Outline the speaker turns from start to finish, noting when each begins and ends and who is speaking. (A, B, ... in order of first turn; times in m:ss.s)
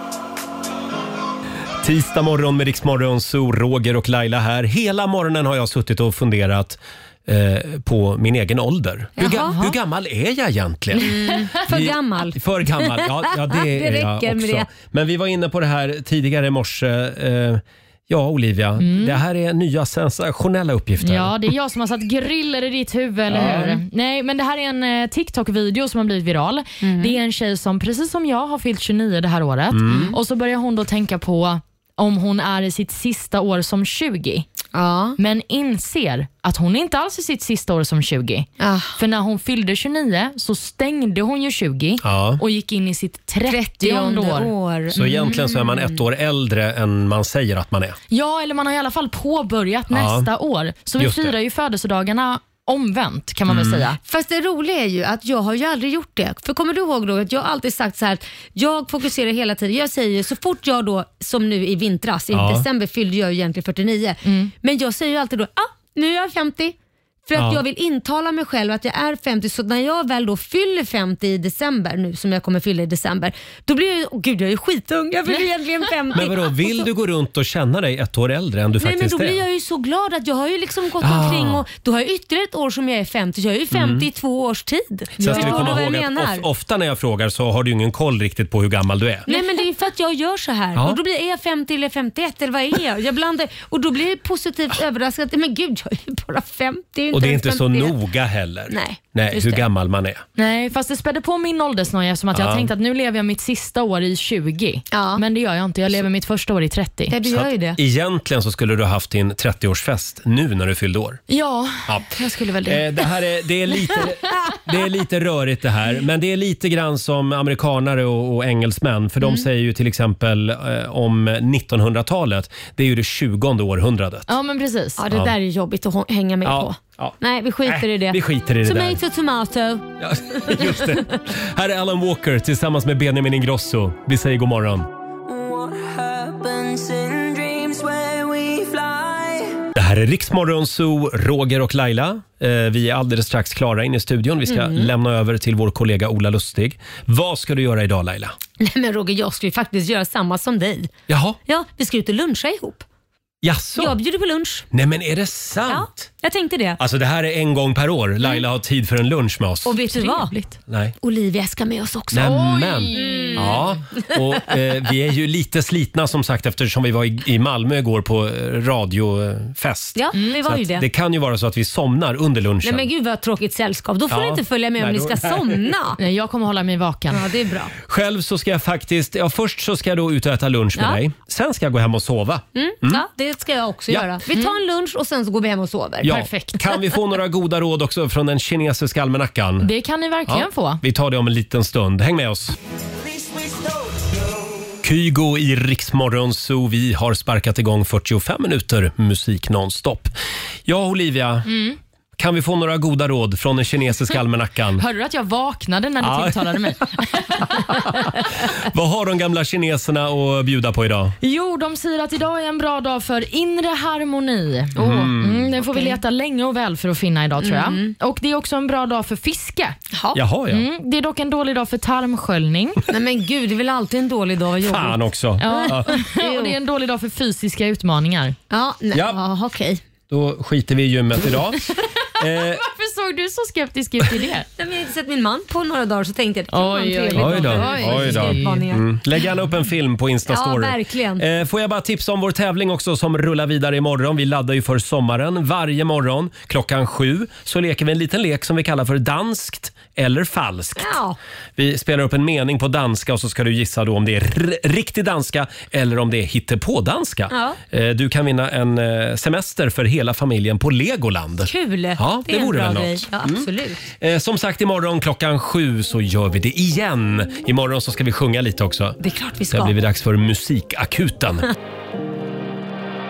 0:01.8-0:21.3 A
0:09.2-0:09.6 B
0:11.0-0:14.7 B
0:18.8-0:19.2 C
0:21.0-0:34.5 C
0:23.3-0:23.8 A
0:26.8-0:27.1 B
0:29.7-0:30.1 A
0:34.7-0:35.2 B
0:35.2-0:44.5 C
0:38.6-0:39.0 B
0:42.0-0:42.4 A
0:43.5-0:46.0 B
0:44.9-0:48.0 A
0:48.1-0:54.0 C
0:49.9-0:50.3 A
0:51.0-0:51.3 A
0:53.5-0:53.9 A
0:54.0-1:06.7 B
1:02.3-1:02.6 A
1:04.2-1:04.5 C
1:07.2-1:16.7 B
1:07.4-1:07.6 A
1:16.1-1:19.4 A
1:18.8-1:26.4 B
1:21.0-1:21.6 A
1:23.7-1:24.0 A
1:25.2-1:29.3 A
1:25.2-1:25.7 C
1:29.3-1:38.0 B
1:37.1-1:40.2 A
1:38.7-1:39.6 B
1:40.4-1:47.1 C
1:42.3-1:42.7 A
1:44.9-1:45.2 B
1:47.1-1:47.8 B
1:47.2-1:51.2 A
1:51.3-1:52.8 C
1:52.6-2:04.3 A
2:04.3-2:05.0 C
2:05.0-2:11.1 B
2:06.4-2:09.0 A
2:10.0-2:14.9 A
2:15.3-2:19.5 D
2:19.7-2:28.4 A
2:24.5-2:24.9 B
2:28.6-2:30.9 B
2:31.1-2:31.4 A
2:31.5-2:32.8 B
2:33.4-2:34.0 A
2:33.8-2:34.7 B
2:34.7-2:36.1 A
2:35.7-2:36.8 B
2:36.8-2:39.8 A
2:39.6-2:40.3 B
2:39.9-2:40.6 C
2:40.7-2:40.9 A
2:41.0-2:42.3 B
2:42.1-2:52.9 A
2:42.2-2:43.6 C
2:42.9-2:44.2 B
2:50.0-2:50.8 B
2:52.6-2:56.0 B
2:54.1-2:55.6 A
2:56.0-2:57.3 C
2:57.1-2:57.7 B
2:57.8-3:03.0 A
3:02.5-3:06.2 B
3:06.0-3:09.7 A
3:06.0-3:06.6 C
3:09.6-3:10.8 C
3:10.3-3:12.6 A
3:13.0-3:14.2 D
3:14.8-3:20.1 A
3:20.7-3:21.5 A
3:21.5-3:21.8 C
3:22.2-3:24.8 A
3:24.8-3:28.0 C
3:26.0-3:26.6 A
3:27.7-3:31.2 A
3:31.2-3:39.8 C
3:34.8-3:35.5 A
3:35.6-3:36.0 B
3:37.4-3:37.9 B
3:39.9-3:40.2 B
3:40.1-3:40.6 A
3:40.5-3:42.8 C
3:42.9-3:46.6 B
3:44.6-3:46.0 A
3:45.4-3:48.4 C
3:48.5-3:49.8 B
3:48.9-3:49.2 A
3:50.1-3:52.6 A
3:52.3-3:54.5 C
3:54.6-3:59.0 B
3:56.5-3:58.6 C
3:57.1-4:10.9 A
4:00.3-4:01.2 B
4:10.8-4:11.2 B
4:11.6-4:23.5 A
4:17.3-4:17.6 B
4:21.4-4:23.8 B
4:24.0-4:29.0 A
4:29.0-4:29.7 B
4:29.5-4:31.5 A